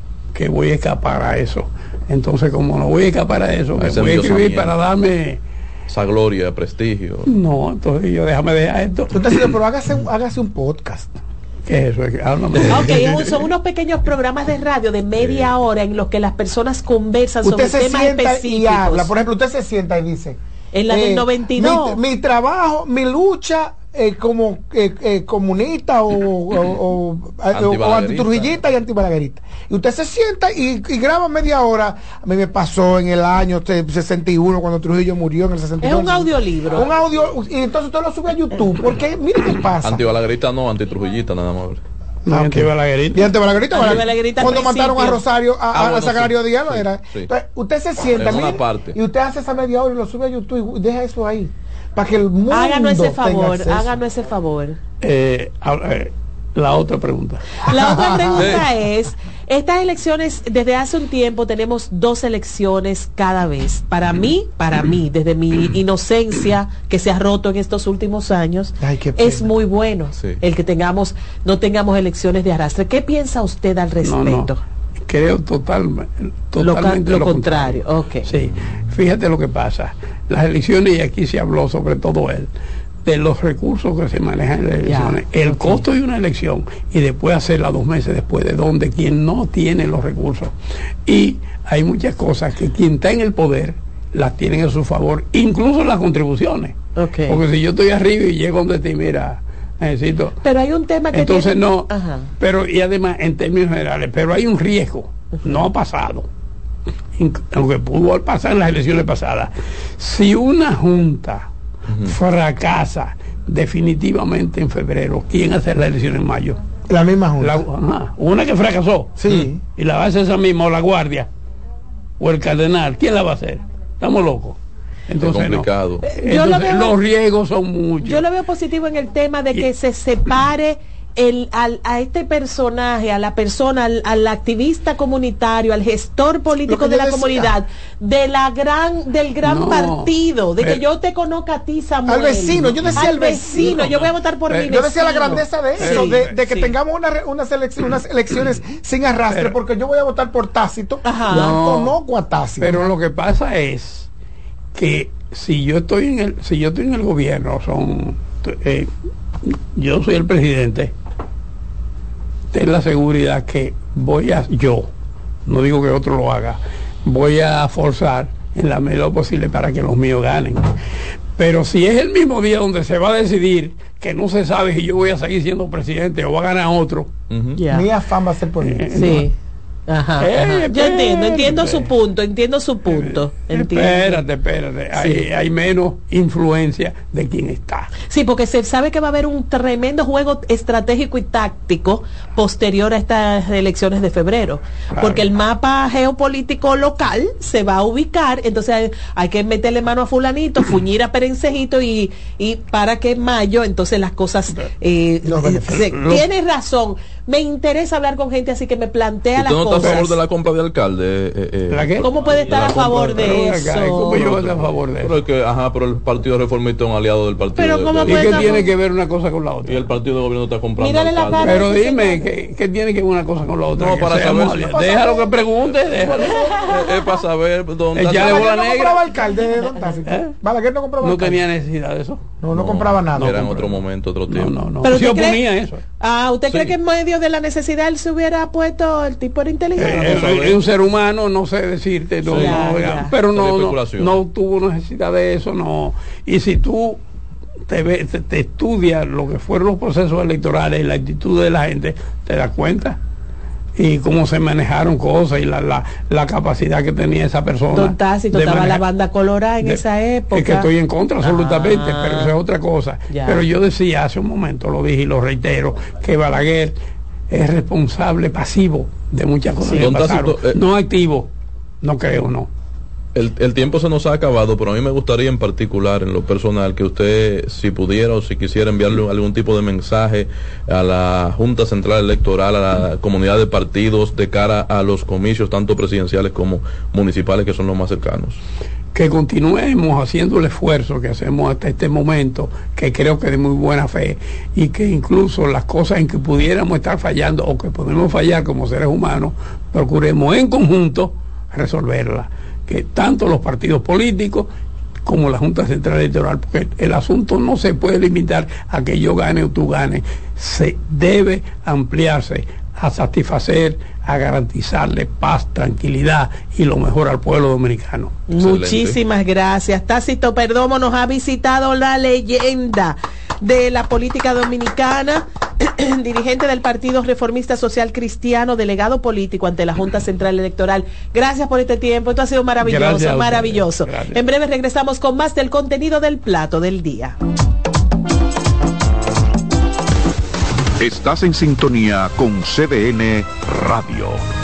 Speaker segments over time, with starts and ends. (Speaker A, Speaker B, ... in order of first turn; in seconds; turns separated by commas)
Speaker A: 0.3-5.4, Speaker B: 3.8-4.8, Speaker B: 5.9-7.3, Speaker A: 7.3-9.2, Speaker C: 9.1-11.1, Speaker A: 11.7-13.1, Speaker D: 12.7-19.1, Speaker B: 15.2-15.5, Speaker C: 17.4-40.0, Speaker D: 20.7-22.0, Speaker B: 27.5-28.5, Speaker D: 35.8-36.9, Speaker B: 39.8-41.8, Speaker A: 42.3-43.3, Speaker C: 42.3-54.0, Speaker D: 43.7-45.2, Speaker B: 45.7-47.3, Speaker B: 48.1-49.0, Speaker D: 52.5-54.8, Speaker A: 55.0-57.5, Speaker D: 57.7-74.6, Speaker C: 57.7-58.6, Speaker B: 58.4-58.6, Speaker C: 68.8-69.5, Speaker B: 70.2-70.4, Speaker A: 74.0-74.5, Speaker A: 75.0-82.5, Speaker D: 76.6-78.3, Speaker A: 83.0-90.5, Speaker D: 84.8-85.8, Speaker A: 91.1-100.4, Speaker D: 97.0-97.4, Speaker D: 100.4-102.3, Speaker A: 101.1-106.3, Speaker D: 105.4-105.6, Speaker A: 107.2-111.5, Speaker B: 111.9-112.1, Speaker A: 112.0-116.6, Speaker C: 116.9-117.6, Speaker A: 117.4-119.2, Speaker C: 119.2-119.6, Speaker A: 119.8-121.3, Speaker A: 122.2-128.2, Speaker B: 125.2-126.1, Speaker D: 126.1-127.0, Speaker D: 128.0-146.7, Speaker C: 136.7-137.6, Speaker A: 139.4-140.8, Speaker C: 142.1-143.9, Speaker A: 143.6-146.3, Speaker C: 144.7-152.8, Speaker A: 149.3-149.6, Speaker D: 151.0-151.6, Speaker A: 151.4-151.9, Speaker A: 152.6-154.1, Speaker A: 154.8-158.9, Speaker A: 159.5-160.9, Speaker A: 162.5-164.9, Speaker A: 165.5-170.7, Speaker A: 171.4-177.1, Speaker B: 177.3-177.6, Speaker D: 177.6-177.9, Speaker C: 177.7-179.1, Speaker A: 178.6-179.3, Speaker D: 178.9-179.3, Speaker D: 179.9-184.2, Speaker A: 180.2-181.9, Speaker A: 182.9-187.9, Speaker D: 184.9-185.3, Speaker D: 188.1-210.2, Speaker A: 194.9-195.3, Speaker C: 205.3-205.7, Speaker A: 205.6-206.3, Speaker B: 209.4-218.6, Speaker A: 211.7-215.2, Speaker D: 212.0-214.2, Speaker D: 217.6-218.7, Speaker A: 218.1-219.8, Speaker B: 219.7-221.7, Speaker D: 220.8-222.3, Speaker A: 221.4-226.5, Speaker B: 223.8-224.8, Speaker C: 224.6-225.3, Speaker D: 226.2-227.0, Speaker B: 226.7-228.5, Speaker A: 227.9-229.1, Speaker C: 228.1-231.4, Speaker A: 230.1-230.3, Speaker A: 231.0-232.3, Speaker C: 232.4-233.6, Speaker B: 232.5-234.7, Speaker A: 233.2-233.7, Speaker A: 234.3-235.8, Speaker D: 234.8-235.4, Speaker D: 236.0-240.5, Speaker B: 236.5-236.8, Speaker A: 239.8-247.0, Speaker B: 239.9-240.7, Speaker B: 242.3-244.2, Speaker D: 242.3-243.1, Speaker A: 247.7-253.0, Speaker A: 253.8-258.8, Speaker D: 257.8-260.7, Speaker A: 259.6-266.8, Speaker D: 261.2-262.3, Speaker D: 263.1-263.4, Speaker A: 267.3-271.3, Speaker B: 269.8-270.6, Speaker A: 271.8-272.5, Speaker B: 273.1-288.4, Speaker A: 288.9-304.5, Speaker A: 305.1-318.2, Speaker D: 318.3-337.2, Speaker B: 318.4-319.0, Speaker A: 332.6-334.2, Speaker E: 340.8-344.2